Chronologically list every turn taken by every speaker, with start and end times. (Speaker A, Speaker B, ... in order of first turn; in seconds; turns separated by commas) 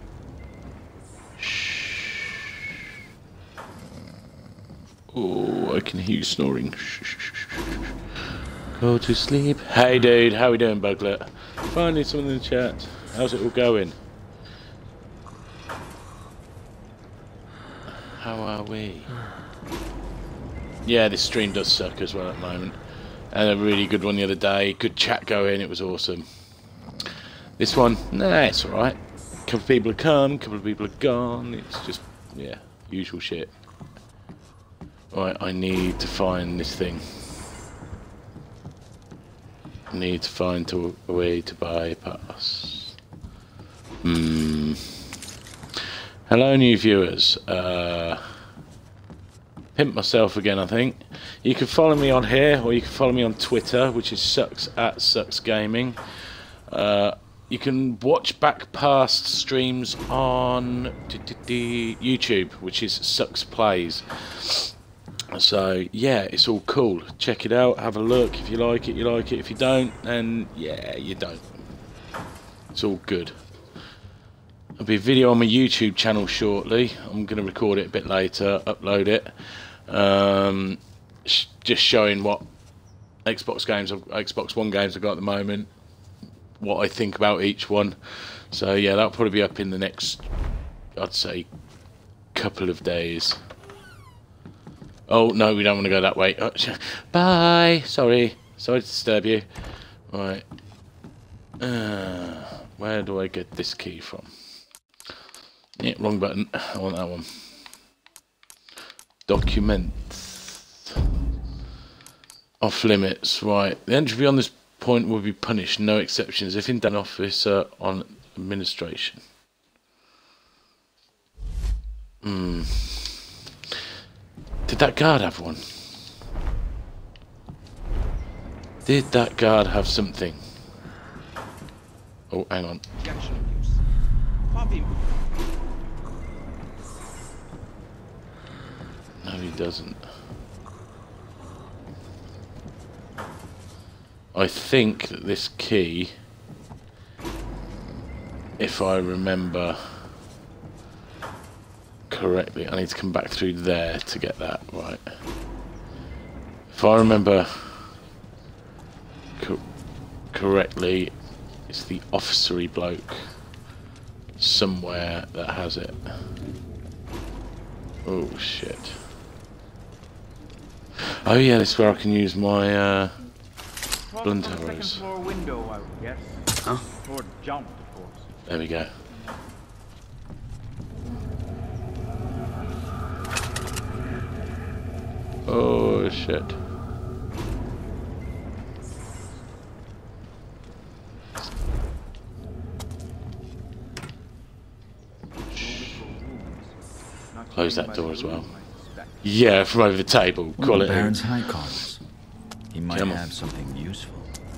Speaker A: 1.4-2.5, Speaker A: 5.1-7.8, Speaker A: 8.7-14.0, Speaker A: 17.9-19.2, Speaker A: 20.8-22.8, Speaker A: 23.3-26.3, Speaker A: 27.6-33.5, Speaker A: 35.1-37.1, Speaker A: 39.9-43.0, Speaker A: 44.0-44.8, Speaker A: 46.3-48.3, Speaker A: 49.7-56.0, Speaker A: 56.7-64.7, Speaker A: 65.3-71.5, Speaker A: 72.7-73.3, Speaker A: 74.8-82.4, Speaker A: 83.2-85.7, Speaker A: 86.6-90.3, Speaker A: 91.0-91.5, Speaker A: 92.3-93.4, Speaker A: 95.1-99.5, Speaker A: 100.1-100.4, Speaker A: 101.6-104.3, Speaker A: 105.8-107.5, Speaker A: 109.3-111.0, Speaker A: 112.6-119.2, Speaker A: 122.2-123.3, Speaker A: 124.7-125.7, Speaker A: 128.8-130.4, Speaker A: 132.3-132.8, Speaker B: 133.0-133.8, Speaker B: 134.5-135.1, Speaker A: 139.2-140.1, Speaker A: 144.3-146.1, Speaker A: 148.6-150.1, Speaker A: 152.1-155.0, Speaker A: 156.7-157.9, Speaker A: 160.3-161.1, Speaker A: 161.7-163.3, Speaker A: 164.4-166.1, Speaker A: 168.0-169.0, Speaker A: 171.0-173.2, Speaker B: 174.1-178.3, Speaker A: 174.2-175.0, Speaker A: 178.5-178.9, Speaker A: 185.4-186.6, Speaker B: 195.5-196.7, Speaker A: 195.6-196.0, Speaker B: 197.3-199.3, Speaker A: 197.5-198.5, Speaker A: 199.2-201.5, Speaker C: 200.6-202.0, Speaker C: 202.7-204.3, Speaker A: 202.9-203.3